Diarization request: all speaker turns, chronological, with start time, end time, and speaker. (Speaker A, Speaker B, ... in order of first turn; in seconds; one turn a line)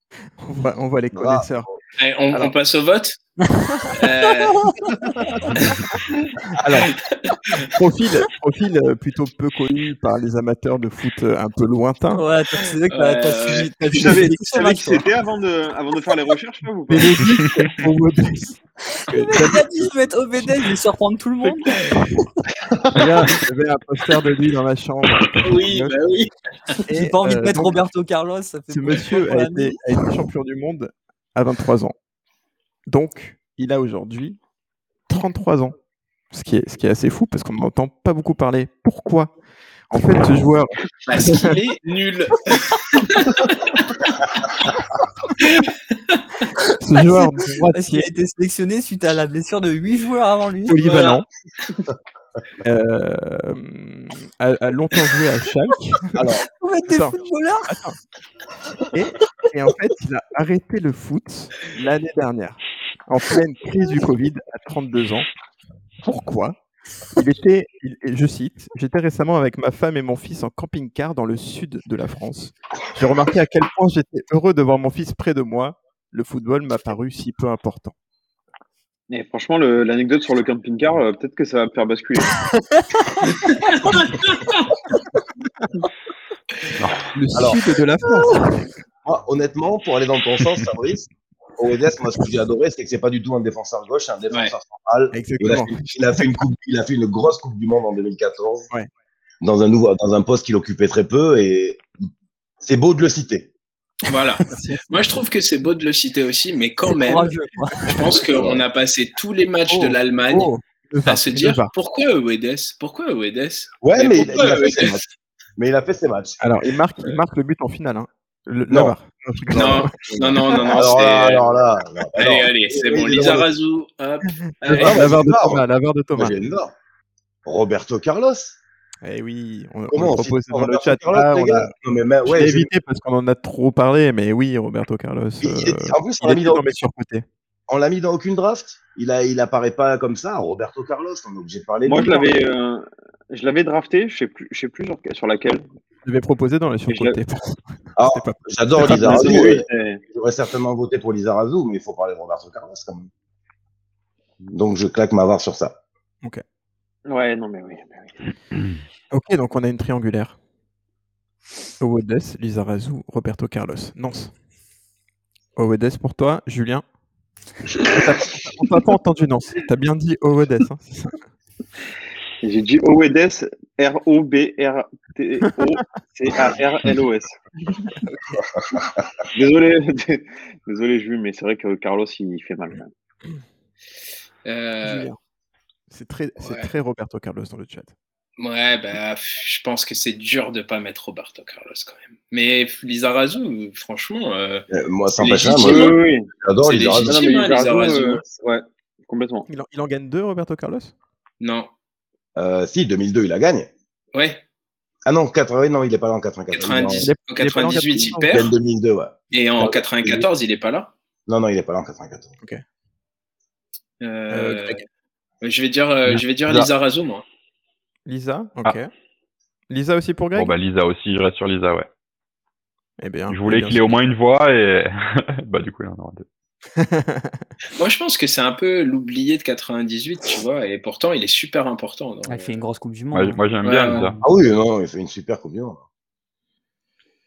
Speaker A: 0.4-1.7
Speaker B: 1.1-1.8
Speaker C: 2.0-3.2
Speaker D: 3.5-5.0
Speaker C: 3.9-4.8
Speaker A: 6.6-7.0
Speaker C: 7.1-7.7
Speaker A: 7.6-12.3
Speaker D: 12.1-15.0
Speaker C: 12.9-13.8
Speaker E: 13.9-17.2
Speaker A: 16.9-19.9
Speaker F: 17.4-17.7
Speaker D: 19.0-21.8
Speaker A: 22.9-26.0
Speaker C: 25.3-26.7
Speaker A: 26.9-27.9
Speaker D: 26.9-29.8
Speaker A: 28.7-31.9
Speaker A: 32.9-34.4
Speaker A: 35.1-35.7
Speaker A: 36.3-39.4
Speaker A: 39.9-41.6
Speaker C: 41.1-44.1
Speaker C: 45.4-46.2
Speaker A: 46.8-48.1
Speaker D: 47.0-50.8
Speaker A: 50.7-51.3
Speaker C: 50.8-51.2
Speaker A: 52.6-56.3
Speaker B: 56.1-56.5
Speaker D: 56.5-57.7
Speaker A: 56.9-58.0
Speaker A: 58.9-65.3
Speaker A: 66.0-66.6
Speaker A: 67.1-77.9
Speaker E: 79.1-82.4
Speaker C: 83.5-84.7
Speaker F: 86.8-87.1
Speaker A: 87.1-88.7
Speaker B: 87.3-87.6
Speaker B: 89.0-98.7
Speaker A: 95.1-96.4
Speaker B: 99.4-102.1
Speaker B: 102.6-103.5
Speaker C: 104.0-107.3
Speaker A: 104.5-105.0
Speaker D: 106.8-108.2
Speaker C: 107.9-110.5
Speaker B: 108.3-108.6
Speaker A: 109.7-111.7
Speaker C: 111.1-115.0
Speaker B: 113.8-115.1
Speaker B: 115.6-116.5
Speaker A: 116.4-120.0
Speaker B: 118.7-119.0
Speaker C: 119.5-125.0
Speaker B: 119.7-123.5
Speaker B: 124.7-125.6
Speaker A: 124.7-126.4
Speaker B: 126.2-126.7
Speaker B: 127.5-128.6
Speaker A: 129.0-131.7
Speaker B: 129.9-132.7
Speaker A: 132.3-137.2
Speaker B: 135.4-136.7
Speaker B: 137.7-142.3
Speaker E: 141.8-145.7
Speaker A: 146.0-149.6
Speaker E: 146.9-147.2
Speaker B: 148.0-153.1
Speaker E: 148.9-150.0
Speaker B: 154.5-155.8
Speaker E: 157.1-158.2
Speaker A: 159.1-160.4
Speaker A: 161.8-164.3
Speaker A: 165.6-166.8
Speaker A: 167.8-171.2
Speaker E: 172.4-177.4
Speaker B: 178.4-178.9
Speaker E: 179.3-182.9
Speaker C: 184.4-185.1
Speaker A: 184.8-185.2
Speaker A: 185.9-187.9
Speaker C: 186.4-186.7
Speaker C: 188.4-194.7
Speaker B: 194.7-197.2
Speaker C: 195.2-196.0
Speaker E: 195.6-196.3
Speaker C: 196.6-198.2
Speaker E: 197.0-199.5
Speaker A: 199.5-200.9
Speaker C: 201.4-201.7
Speaker B: 202.4-203.7
Speaker C: 204.1-204.4
Speaker B: 205.1-207.1
Speaker C: 206.5-208.5
Speaker A: 207.0-208.5
Speaker B: 208.3-210.3
Speaker C: 209.3-210.9
Speaker B: 211.3-212.3
Speaker C: 214.0-214.8
Speaker A: 214.3-214.8
Speaker C: 215.4-217.2
Speaker A: 218.1-218.9
Speaker A: 219.7-220.5
Speaker F: 220.4-221.9
Speaker A: 223.0-224.0
Speaker F: 223.3-226.3
Speaker A: 226.8-227.4
Speaker C: 227.8-232.6
Speaker D: 232.3-234.2
Speaker F: 233.1-234.2
Speaker C: 233.6-234.1
Speaker B: 234.2-235.8